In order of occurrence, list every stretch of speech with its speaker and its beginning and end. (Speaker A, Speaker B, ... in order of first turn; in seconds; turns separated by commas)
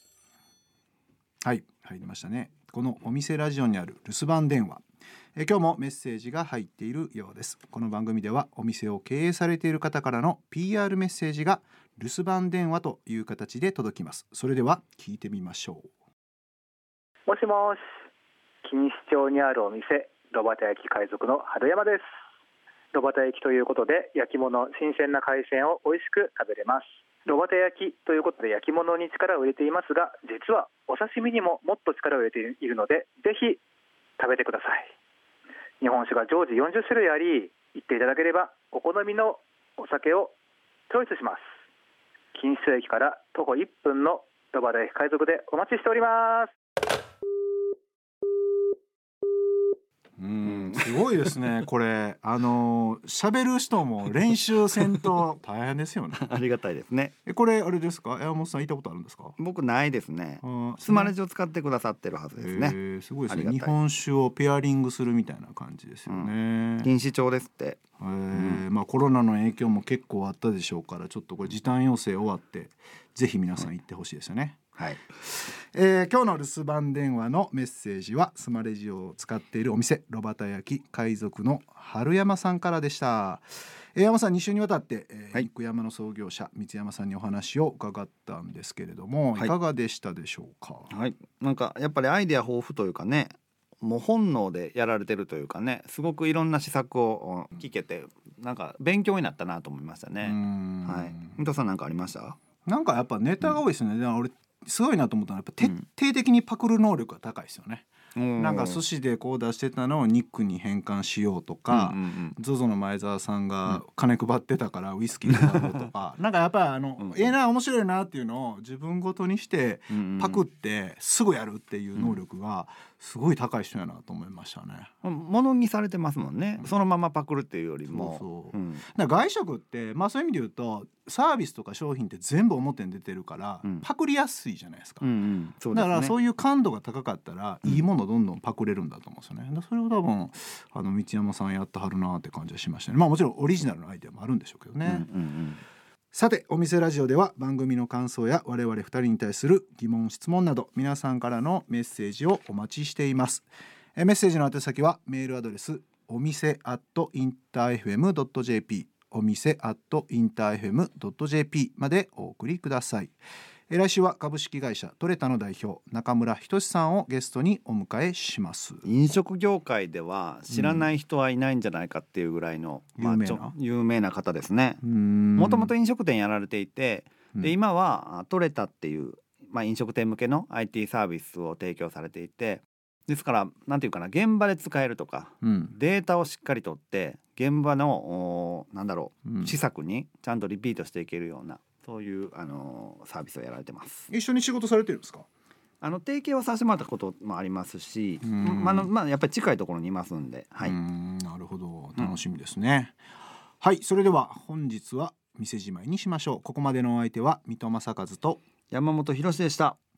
Speaker A: 1.4-4.8, Speaker A: 5.4-15.9, Speaker B: 17.3-17.8, Speaker B: 18.6-22.1, Speaker B: 22.9-33.6, Speaker B: 34.2-34.9, Speaker B: 35.8-40.3, Speaker B: 40.9-41.4, Speaker B: 42.4-46.5, Speaker A: 50.2-56.2, Speaker C: 50.5-50.9, Speaker C: 56.1-57.1, Speaker A: 57.3-59.4, Speaker C: 59.4-62.8, Speaker A: 60.4-61.1, Speaker A: 62.4-66.9, Speaker C: 63.3-63.7, Speaker C: 66.1-67.8, Speaker A: 68.0-74.6, Speaker C: 68.3-68.6, Speaker C: 74.8-75.0, Speaker A: 75.2-90.9, Speaker C: 90.9-102.4, Speaker A: 100.2-101.4, Speaker A: 102.7-124.9, Speaker C: 108.2-108.8, Speaker C: 111.7-112.4, Speaker C: 117.0-117.3, Speaker C: 119.9-120.5, Speaker C: 125.0-128.8, Speaker A: 127.9-135.1, Speaker C: 135.0-136.2, Speaker A: 135.7-145.1, Speaker C: 144.8-145.6, Speaker A: 146.1-163.1, Speaker A: 163.7-168.8, Speaker C: 168.8-174.8, Speaker A: 170.5-170.9, Speaker A: 173.0-173.5, Speaker A: 174.8-175.7, Speaker C: 175.4-194.1, Speaker A: 185.4-185.7, Speaker A: 189.2-189.5, Speaker A: 194.1-195.3, Speaker C: 195.8-200.8, Speaker A: 198.2-198.9, Speaker A: 200.6-203.0, Speaker A: 203.6-208.4, Speaker C: 208.7-209.8